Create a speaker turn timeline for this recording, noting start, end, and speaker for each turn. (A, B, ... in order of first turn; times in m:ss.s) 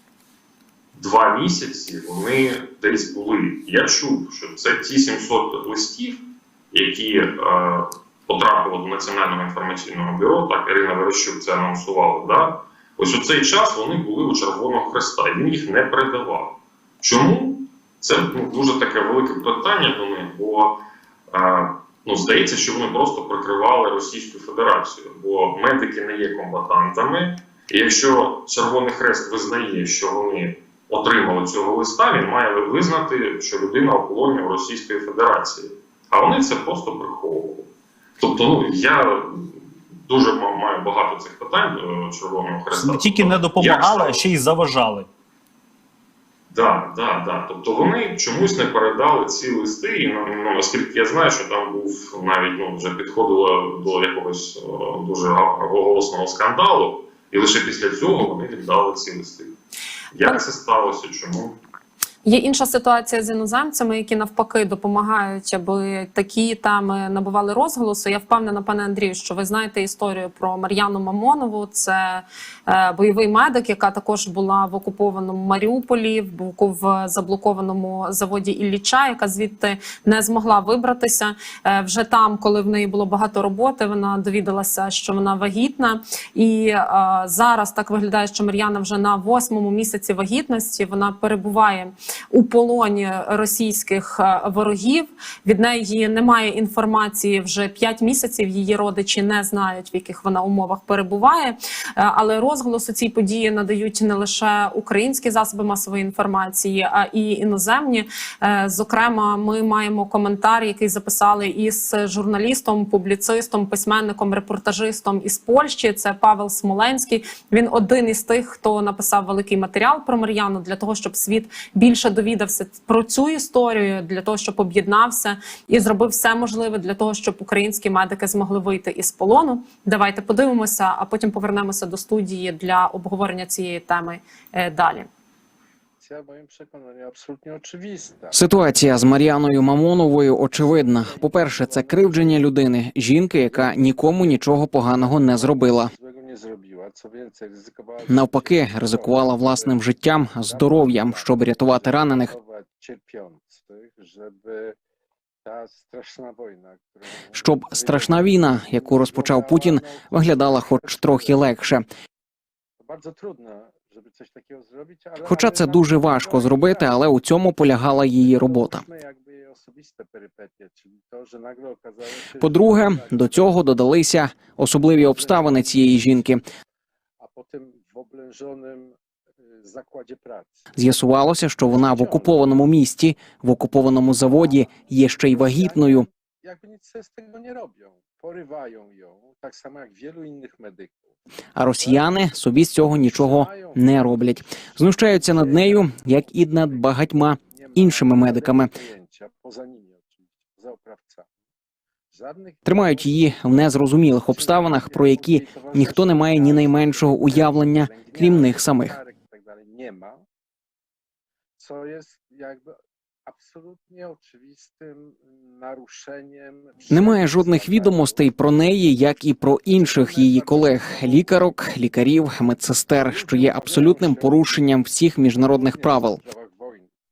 0:00.9-0:37.7 A
0:38.2-0:44.3 A
0:42.7-0:45.1 B
0:46.5-0:59.5 A
1:00.1-1:01.6 A
1:02.2-2:15.1 C
2:16.0-2:19.4 D
2:18.3-2:25.9 E
2:20.5-2:22.5 D
2:23.4-2:29.8 D
2:28.1-2:32.3 E
2:30.4-2:34.8 D
2:35.4-2:41.4 D
2:37.3-2:41.8 E
2:42.8-2:47.2 D
2:45.2-2:48.8 E
2:47.9-2:53.9 D
2:52.4-2:56.4 E
2:54.8-2:56.2 D
2:57.2-3:00.7 D
3:00.8-3:06.1 E
3:01.7-3:02.4 D
3:04.3-3:11.2 D
3:11.6-3:18.7 E
3:11.8-3:12.1 D
3:12.8-3:21.3 D
3:22.1-3:23.7 D
3:22.6-3:29.0 E
3:24.3-3:30.2 D
3:31.6-3:38.3 D
3:36.9-3:46.2 E
3:39.6-3:41.8 D
3:43.0-3:44.6 D
3:45.4-3:46.9 D